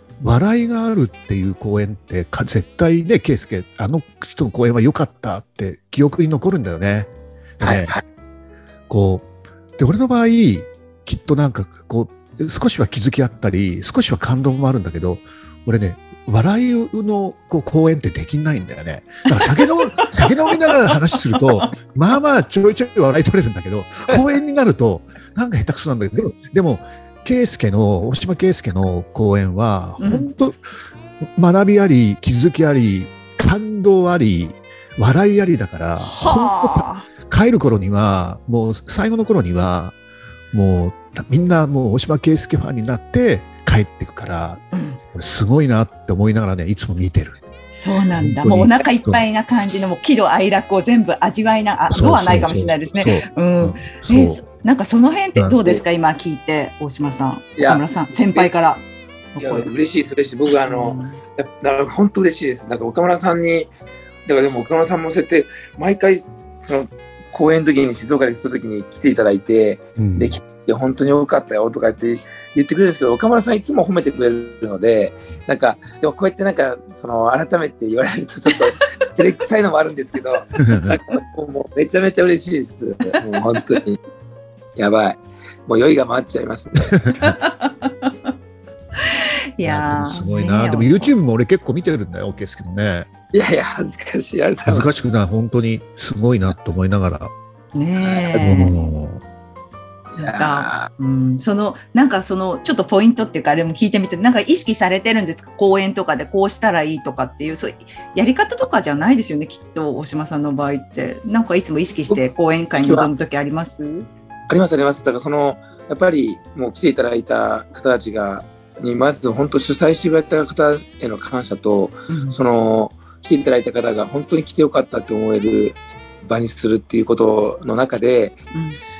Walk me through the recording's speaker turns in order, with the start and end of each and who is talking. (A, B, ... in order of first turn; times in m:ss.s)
0:00.2-0:08.0 A
0:07.6-0:08.0 B
0:08.9-0:09.3 A
0:09.8-0:30.6 A
0:19.3-0:20.3 C
0:30.0-0:30.3 C
0:31.4-0:40.0 A
0:36.0-0:37.1 C
0:40.5-0:47.4 A
0:44.7-0:45.0 C
0:47.7-0:59.7 C
0:48.1-0:49.2 A
0:51.9-0:54.4 A
0:57.6-0:58.5 B
0:59.4-1:03.7 B
1:00.6-1:01.2 C
1:04.2-1:24.0 B
1:10.0-1:10.4 A
1:20.6-1:20.9 A
1:24.8-1:27.0 B
1:27.1-1:28.1 C
1:29.0-1:31.1 C
1:29.6-1:33.1 A
1:33.3-1:34.9 B
1:34.6-1:37.3 A
1:37.7-1:38.7 C
1:38.0-1:38.3 B
1:38.3-1:39.2 A
1:40.1-1:40.9 B
1:40.2-1:54.1 C
1:52.1-1:53.1 B
1:54.5-2:08.4 B
2:02.1-2:02.4 C
2:08.5-2:08.8 C